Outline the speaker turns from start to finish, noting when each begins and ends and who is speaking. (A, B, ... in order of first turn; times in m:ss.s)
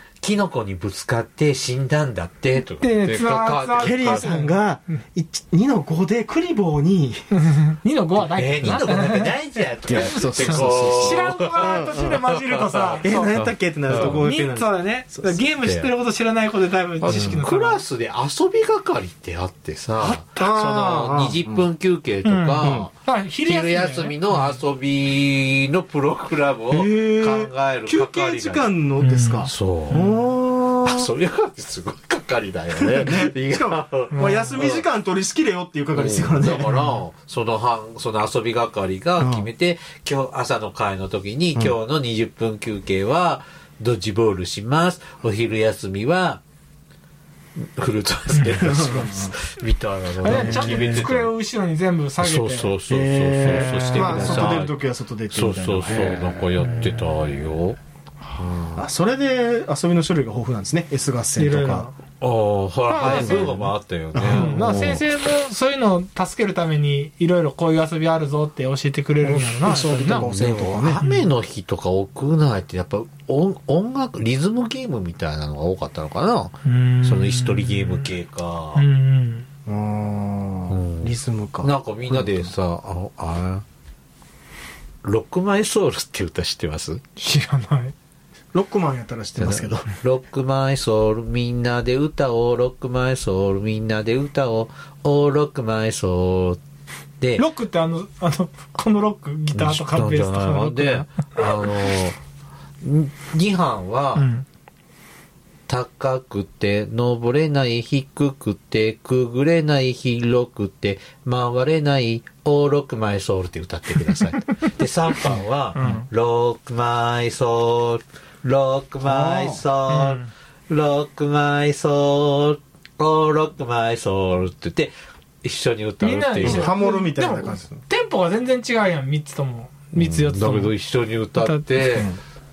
0:00.2-0:04.3 A
0:02.8-0:05.0 B
0:03.8-0:07.2 C
0:07.3-0:13.4 B
0:08.2-0:14.2 A
0:09.8-0:12.2 C
0:13.0-0:15.4 C
0:13.9-0:17.8 B
0:15.6-0:15.9 A
0:17.0-0:28.7 A
0:17.1-0:17.4 C
0:20.0-0:20.5 B
0:20.4-0:21.7 C
0:22.2-0:24.6 B
0:22.6-0:22.9 C
0:26.7-0:31.1 C
0:29.0-0:30.2 B
0:29.4-0:30.0 A
0:30.8-0:34.8 A
0:32.7-0:36.8 C
0:34.1-0:34.6 B
0:35.9-0:46.4 A
0:39.2-0:39.5 C
0:47.6-0:51.3 A
0:48.3-0:48.9 B
0:48.4-0:49.3 C
0:50.2-0:52.7 B
0:50.2-0:51.1 C
0:52.2-0:54.8 A
0:52.9-0:56.8 C
0:53.4-0:54.6 B
0:55.3-0:57.8 A
0:56.6-0:57.3 B
0:58.3-0:58.8 A
0:58.8-1:01.9 C
1:01.4-1:01.9 B
1:02.2-1:05.0 A
1:02.9-1:03.6 B
1:03.0-1:05.0 C
1:04.3-1:10.4 B
1:09.2-1:11.0 C
1:10.1-1:18.8 A
1:11.0-1:11.3 B
1:16.6-1:18.1 B
1:18.7-1:19.5 B
1:19.6-1:22.5 C
1:20.7-1:23.6 A
1:25.0-1:27.0 A
1:27.2-1:27.9 B
1:28.5-1:29.9 C
1:29.4-1:36.6 A
1:37.4-1:41.8 B
1:39.5-1:42.2 A
1:42.8-1:44.2 A
1:44.2-1:44.4 B
1:45.7-2:06.7 A
1:55.7-1:56.1 B
1:59.0-1:59.6 C
1:59.9-2:00.3 B
2:06.0-2:10.7 B
2:06.4-2:07.8 C
2:09.9-2:12.1 A
2:11.4-2:12.0 B